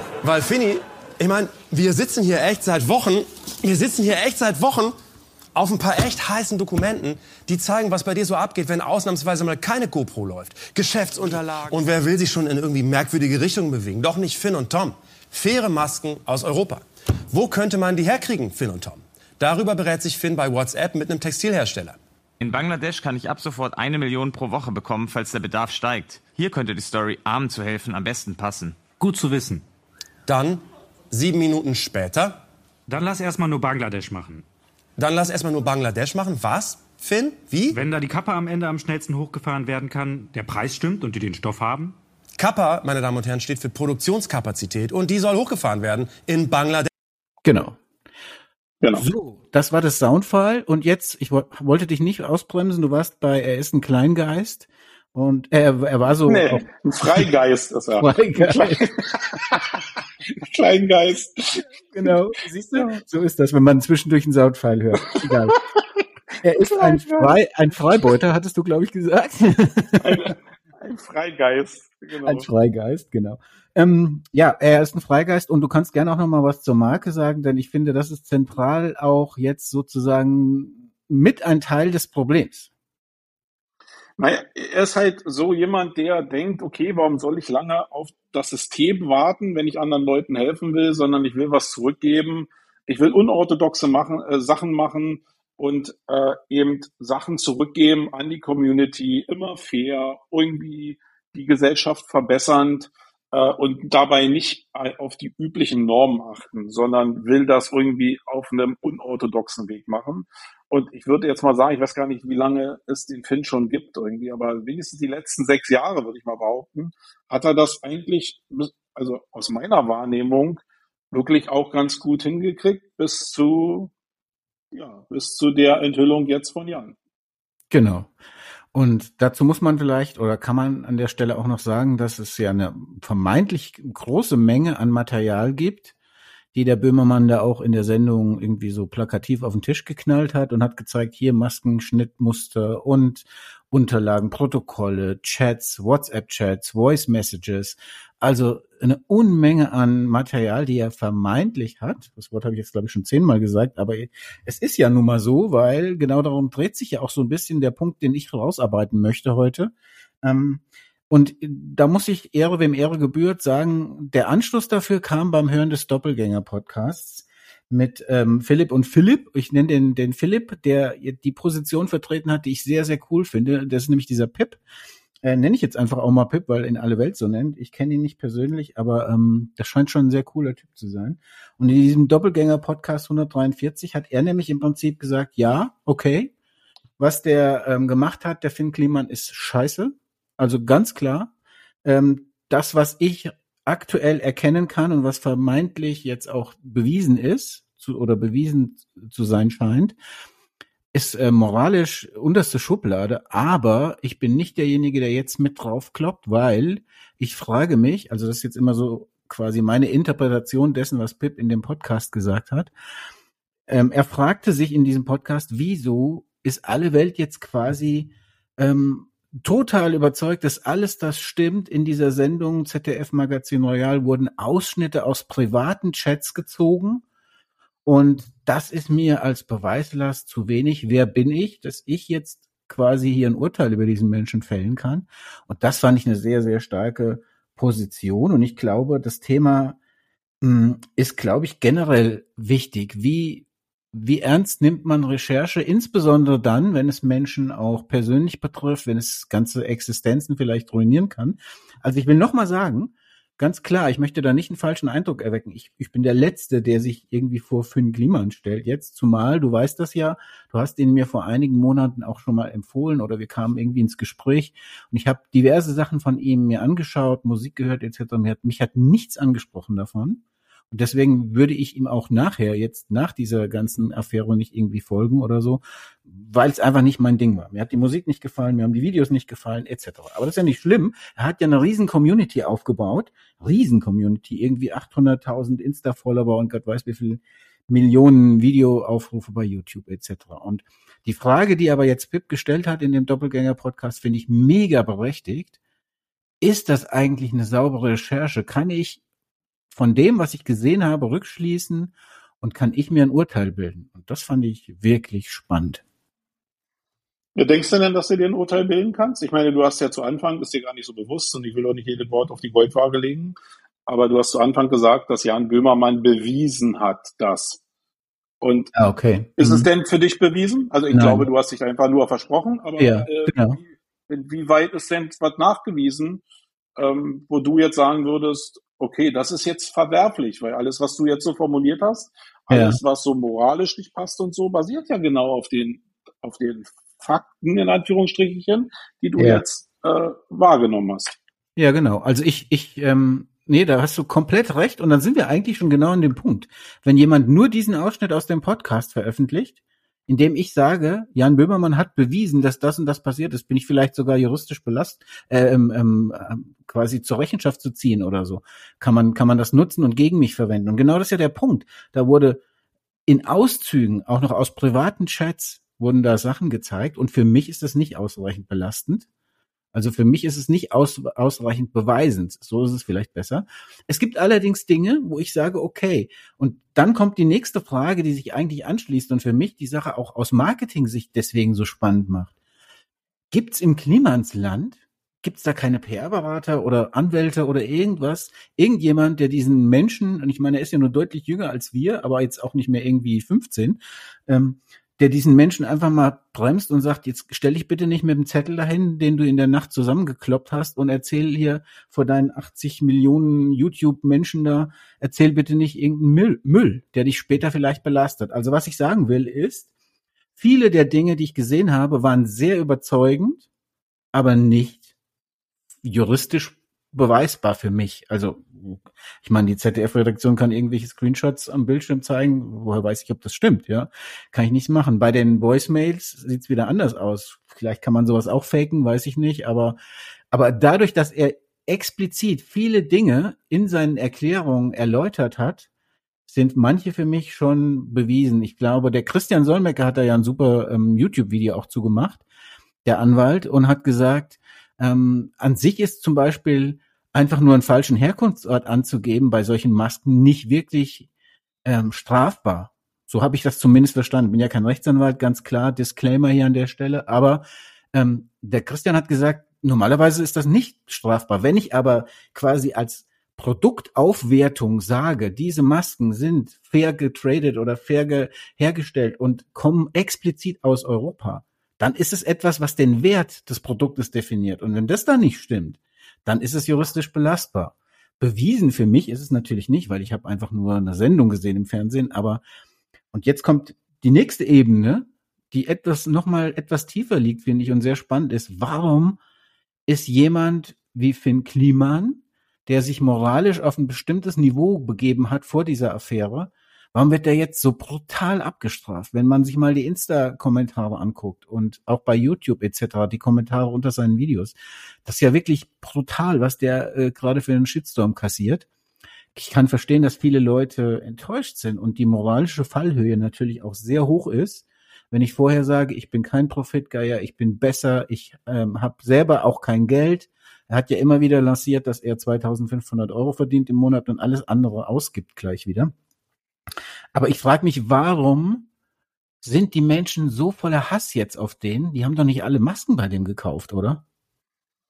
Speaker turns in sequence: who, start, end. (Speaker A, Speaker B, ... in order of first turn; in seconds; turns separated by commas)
Speaker A: 0.2-4.9, Speaker A: 5.5-22.0, Speaker B: 22.4-28.9, Speaker C: 29.0-29.6, Speaker A: 30.2-32.4, Speaker C: 32.9-34.4, Speaker A: 35.0-37.8, Speaker C: 37.7-42.0, Speaker A: 42.4-46.9, Speaker D: 47.4-47.8, Speaker D: 48.9-57.3, Speaker E: 56.2-59.8, Speaker D: 58.0-59.4, Speaker E: 60.3-62.1, Speaker D: 61.6-65.6, Speaker E: 62.7-63.0, Speaker E: 65.1-65.8, Speaker D: 66.4-70.3, Speaker E: 66.6-67.3, Speaker E: 70.0-72.5, Speaker D: 72.2-82.7, Speaker E: 84.2-123.9, Speaker E: 124.7-126.9, Speaker D: 127.7-128.1, Speaker D: 128.7-135.9, Speaker D: 136.5-174.6, Speaker D: 175.2-186.3, Speaker D: 187.0-191.3, Speaker D: 191.8-199.9, Speaker D: 200.9-212.7, Speaker D: 213.7-227.0, Speaker D: 227.8-239.8, Speaker D: 240.4-295.6, Speaker D: 296.4-299.0, Speaker D: 299.7-305.8, Speaker E: 307.4-313.3, Speaker E: 313.9-317.6, Speaker E: 318.4-318.7, Speaker D: 318.7-319.7, Speaker E: 319.4-326.2, Speaker D: 320.9-321.3, Speaker D: 322.8-323.6, Speaker E: 326.8-341.1, Speaker D: 332.5-332.8, Speaker D: 339.2-339.4, Speaker D: 341.6-362.4, Speaker D: 363.1-369.1, Speaker D: 369.7-382.3, Speaker D: 383.3-409.7, Speaker D: 410.4-413.4, Speaker D: 414.1-414.9, Speaker D: 415.8-429.8, Speaker D: 430.3-435.7, Speaker D: 436.3-442.2, Speaker D: 442.8-451.1, Speaker D: 451.6-482.4, Speaker D: 483.1-489.2, Speaker D: 489.9-508.6, Speaker D: 509.3-525.9, Speaker D: 527.1-528.7, Speaker D: 529.4-534.0